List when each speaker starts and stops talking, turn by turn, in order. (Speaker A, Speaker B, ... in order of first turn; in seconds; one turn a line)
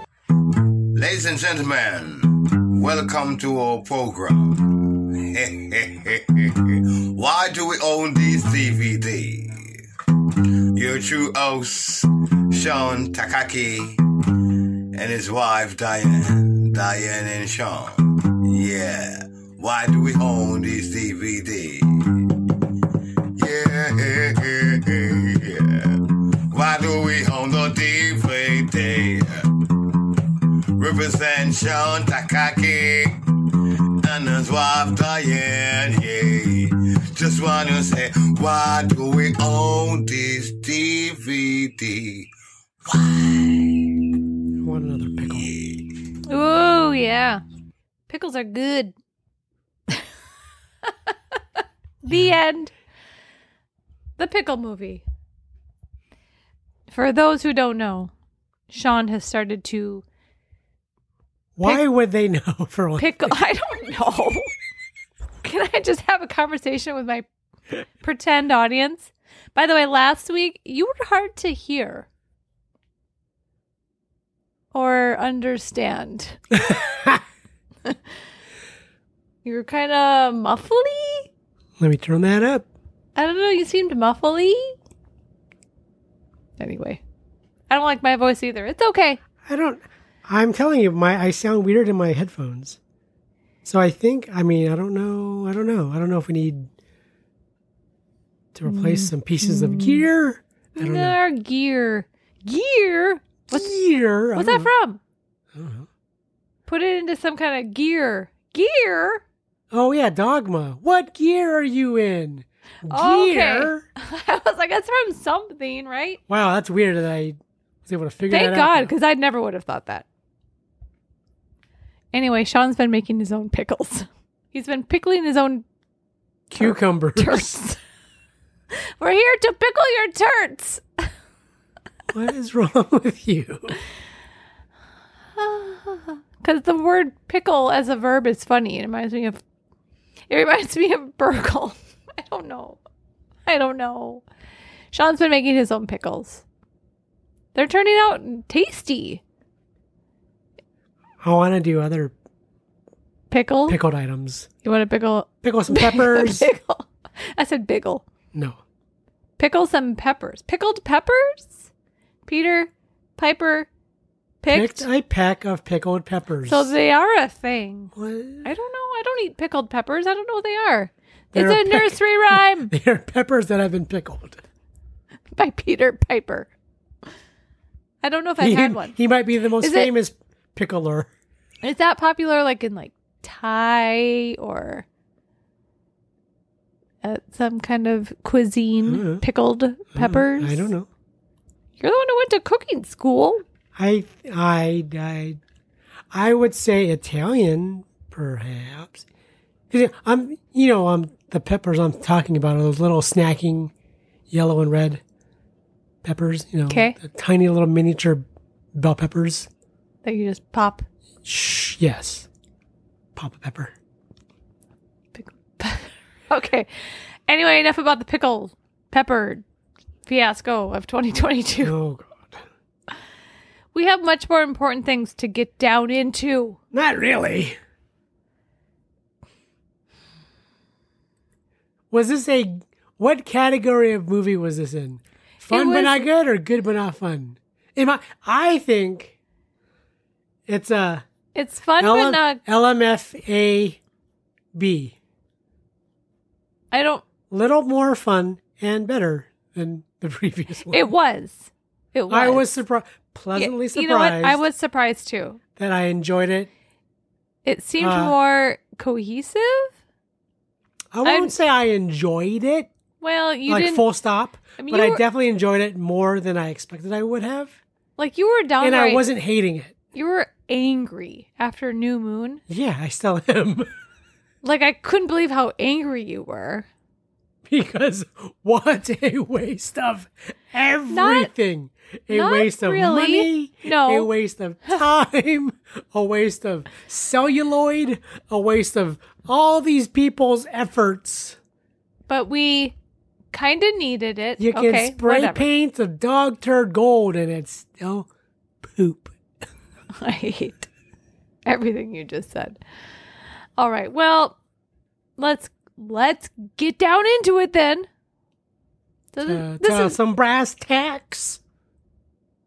Speaker A: 0.9-9.7
Speaker A: 10.7-22.3
Speaker A: 23.4-29.3
Speaker A: 29.9-33.2
Speaker A: 34.0-42.3
Speaker A: 42.9-43.9
Speaker B: 44.6-45.5
Speaker A: 45.3-45.8
Speaker C: 46.3-47.4
Speaker C: 48.1-48.9
Speaker C: 52.0-52.7
Speaker C: 54.2-55.0
Speaker C: 56.9-58.1
Speaker C: 58.7-60.0
Speaker B: 61.6-63.4
Speaker C: 63.0-64.5
Speaker C: 65.4-67.3
Speaker C: 68.0-72.1
Speaker C: 74.7-76.7
Speaker B: 76.6-77.2
Speaker C: 79.4-81.3
Speaker B: 81.8-82.7
Speaker C: 83.2-84.8
Speaker C: 86.6-87.0
Speaker C: 87.7-89.2
Speaker B: 89.4-92.8
Speaker B: 93.7-96.7
Speaker B: 98.5-101.2
Speaker C: 98.7-100.1
Speaker C: 100.8-103.7
Speaker B: 103.5-104.7
Speaker C: 104.3-105.0
Speaker B: 105.5-105.9
Speaker C: 106.7-109.2
Speaker B: 109.7-113.8
Speaker C: 112.9-116.2
Speaker B: 116.3-118.9
Speaker C: 118.3-120.1
Speaker C: 122.1-125.7
Speaker B: 126.5-127.5
Speaker C: 126.6-127.8
Speaker C: 129.0-131.1
Speaker B: 132.1-133.8
Speaker C: 135.4-139.4
Speaker C: 140.3-142.8
Speaker C: 143.5-144.2
Speaker C: 144.9-146.4
Speaker C: 147.5-149.2
Speaker B: 151.2-152.1
Speaker C: 153.3-153.8
Speaker B: 153.7-154.5
Speaker C: 154.6-158.1
Speaker B: 155.4-156.5
Speaker C: 159.4-161.6
Speaker C: 162.3-163.7
Speaker C: 164.4-164.9
Speaker B: 164.5-166.7
Speaker C: 166.5-172.7
Speaker B: 167.9-168.5
Speaker B: 171.3-174.4
Speaker C: 175.3-176.5
Speaker C: 178.0-179.0
Speaker B: 178.4-181.1
Speaker C: 179.6-179.9
Speaker C: 181.6-184.9
Speaker C: 187.0-190.7
Speaker B: 188.8-189.2
Speaker B: 189.9-190.9
Speaker C: 191.8-193.4
Speaker B: 193.8-195.4
Speaker B: 196.1-199.1
Speaker B: 199.7-203.7
Speaker B: 204.3-205.0
Speaker B: 206.0-209.5
Speaker C: 206.7-207.0
Speaker C: 210.0-210.9
Speaker B: 211.2-212.3
Speaker B: 213.2-213.7
Speaker C: 215.2-216.7
Speaker C: 217.3-219.4
Speaker C: 220.1-221.8
Speaker B: 221.6-222.4
Speaker C: 223.7-226.6
Speaker B: 226.7-227.6
Speaker B: 231.9-239.1
Speaker C: 235.5-236.1
Speaker B: 240.5-241.0
Speaker C: 241.3-242.4
Speaker B: 241.8-243.8
Speaker B: 244.5-244.9
Speaker C: 246.7-247.0
Speaker B: 247.3-250.9
Speaker C: 250.7-252.5
Speaker B: 252.1-254.4
Speaker C: 253.3-255.4
Speaker B: 255.6-256.5
Speaker C: 257.4-259.7
Speaker B: 257.8-258.1
Speaker B: 260.9-262.7
Speaker C: 261.0-261.4
Speaker C: 263.0-263.9
Speaker B: 263.5-267.6
Speaker C: 264.6-265.0
Speaker C: 268.0-269.1
Speaker B: 268.6-269.8
Speaker C: 269.9-272.4
Speaker B: 272.5-273.7
Speaker C: 274.4-276.7
Speaker B: 277.5-291.4
Speaker C: 280.9-281.3
Speaker C: 282.1-284.1
Speaker C: 292.1-292.8
Speaker C: 293.3-295.4
Speaker B: 294.4-298.1
Speaker B: 298.6-299.1
Speaker C: 300.0-300.7
Speaker C: 301.5-302.6
Speaker C: 303.6-304.4
Speaker C: 305.2-307.9
Speaker C: 309.1-310.0
Speaker B: 309.2-311.4